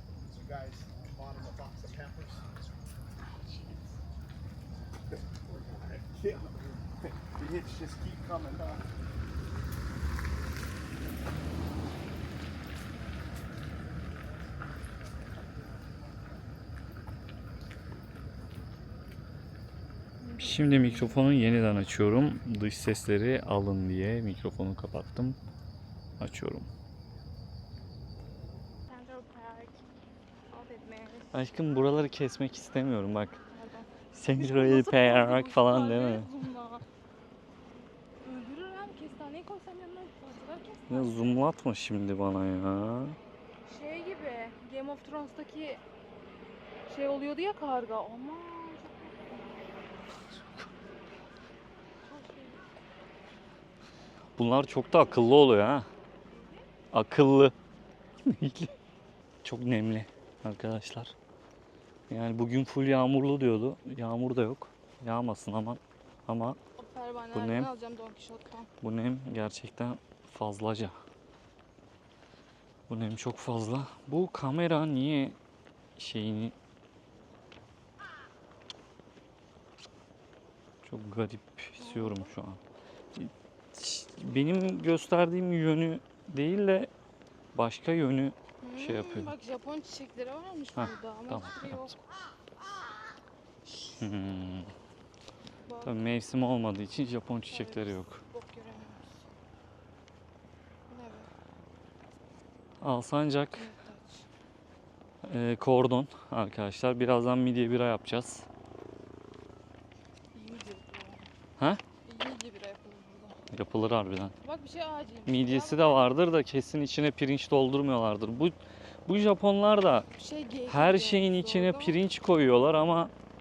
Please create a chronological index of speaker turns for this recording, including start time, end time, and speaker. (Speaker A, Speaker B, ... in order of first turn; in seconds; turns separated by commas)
Speaker A: 0.5-2.5, Speaker A: 5.7-6.5, Speaker A: 7.3-8.8, Speaker B: 20.2-21.2, Speaker C: 20.4-25.4, Speaker C: 26.2-26.7, Speaker B: 28.9-29.8, Speaker B: 30.5-31.3, Speaker C: 31.3-33.4, Speaker B: 33.5-36.9, Speaker C: 34.1-36.3, Speaker B: 38.2-41.3, Speaker C: 40.9-43.2, Speaker B: 43.6-45.8, Speaker B: 46.9-49.6, Speaker C: 50.3-50.7, Speaker B: 52.0-52.7, Speaker C: 54.4-55.9, Speaker B: 56.3-56.7, Speaker C: 56.9-57.5, Speaker C: 58.3-58.7, Speaker C: 59.4-61.1, Speaker C: 62.1-66.6, Speaker B: 66.8-68.7, Speaker C: 67.3-67.7, Speaker C: 68.8-71.0, Speaker C: 72.9-75.4, Speaker C: 76.0-76.5, Speaker C: 80.8-82.6, Speaker B: 81.8-82.3, Speaker C: 83.2-86.9, Speaker C: 87.5-89.3, Speaker B: 88.6-92.1, Speaker C: 90.8-91.9, Speaker C: 94.0-94.7, Speaker B: 95.7-96.2, Speaker C: 95.9-98.2, Speaker B: 97.5-99.2, Speaker B: 100.9-101.3, Speaker C: 102.8-103.7, Speaker B: 103.5-104.3, Speaker C: 105.2-108.5, Speaker B: 110.3-111.3, Speaker B: 112.0-113.4, Speaker C: 113.5-114.3, Speaker B: 114.4-116.1, Speaker C: 115.3-120.1, Speaker B: 120.2-122.0, Speaker C: 120.7-123.1